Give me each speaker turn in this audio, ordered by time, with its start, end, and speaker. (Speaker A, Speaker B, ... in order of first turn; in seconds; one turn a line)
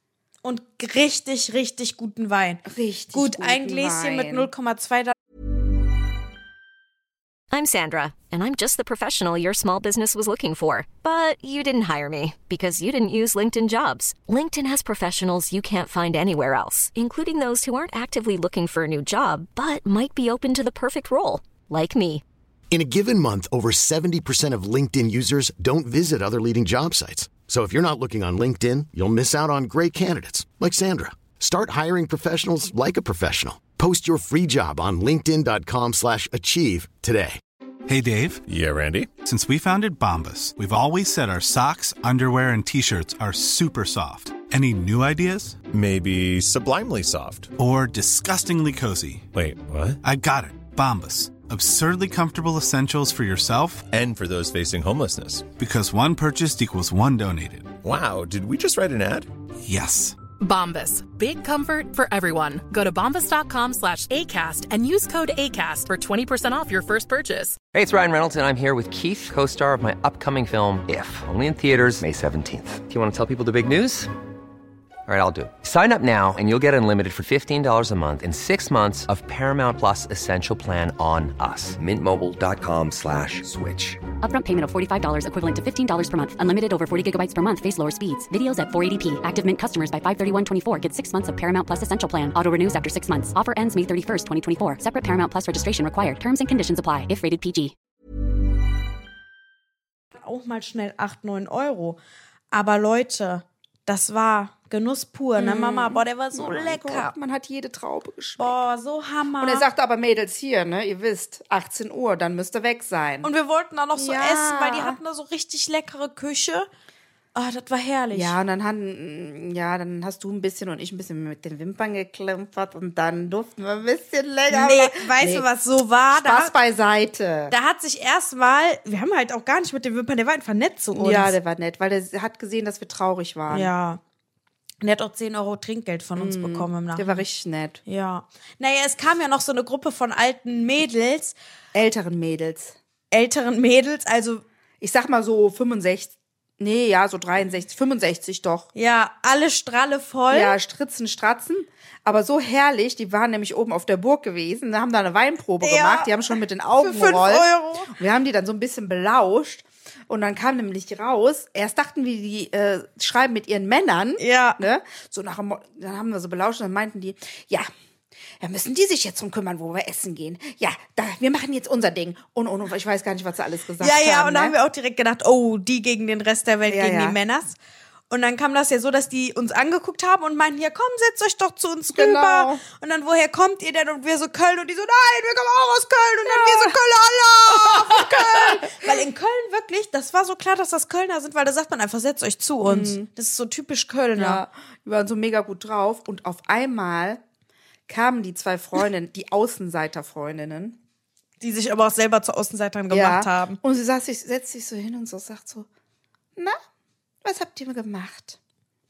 Speaker A: 0.4-5.1
Speaker B: 2.6-4.5
Speaker C: 7.5-22.2
Speaker D: 22.7-37.4
Speaker E: 37.9-38.4
Speaker F: 38.5-39.1
Speaker E: 39.2-45.6
Speaker F: 45.7-47.5
Speaker E: 47.6-49.3
Speaker F: 49.3-50.0
Speaker E: 50.0-53.9
Speaker F: 53.9-55.5
Speaker E: 55.6-57.7
Speaker F: 57.8-59.3
Speaker E: 59.6-60.2
Speaker G: 60.4-67.6
Speaker H: 67.7-74.1
Speaker H: 75.1-84.0
Speaker I: 84.2-97.7
Speaker A: 100.1-102.0
Speaker A: 102.5-107.1
Speaker B: 105.4-108.6
Speaker A: 108.4-109.6
Speaker B: 109.4-113.3
Speaker A: 113.2-116.7
Speaker B: 114.0-115.0
Speaker A: 117.3-118.4
Speaker B: 118.1-125.5
Speaker A: 124.5-126.5
Speaker B: 126.1-127.5
Speaker A: 127.5-131.3
Speaker B: 130.9-133.7
Speaker A: 133.5-134.0
Speaker A: 134.8-137.2
Speaker B: 136.2-137.8
Speaker A: 137.9-141.4
Speaker B: 141.7-142.8
Speaker A: 143.1-144.4
Speaker B: 144.8-148.7
Speaker A: 148.8-150.6
Speaker B: 150.3-167.7
Speaker A: 155.6-157.9
Speaker A: 164.2-164.6
Speaker B: 168.4-174.6
Speaker A: 173.8-177.6
Speaker B: 176.7-177.2
Speaker A: 178.1-194.4
Speaker B: 181.9-182.6
Speaker B: 186.2-186.8
Speaker B: 187.5-188.9
Speaker B: 192.6-193.1
Speaker B: 194.1-197.2
Speaker B: 197.9-200.8
Speaker A: 201.4-203.6
Speaker B: 202.9-205.7
Speaker B: 207.2-208.4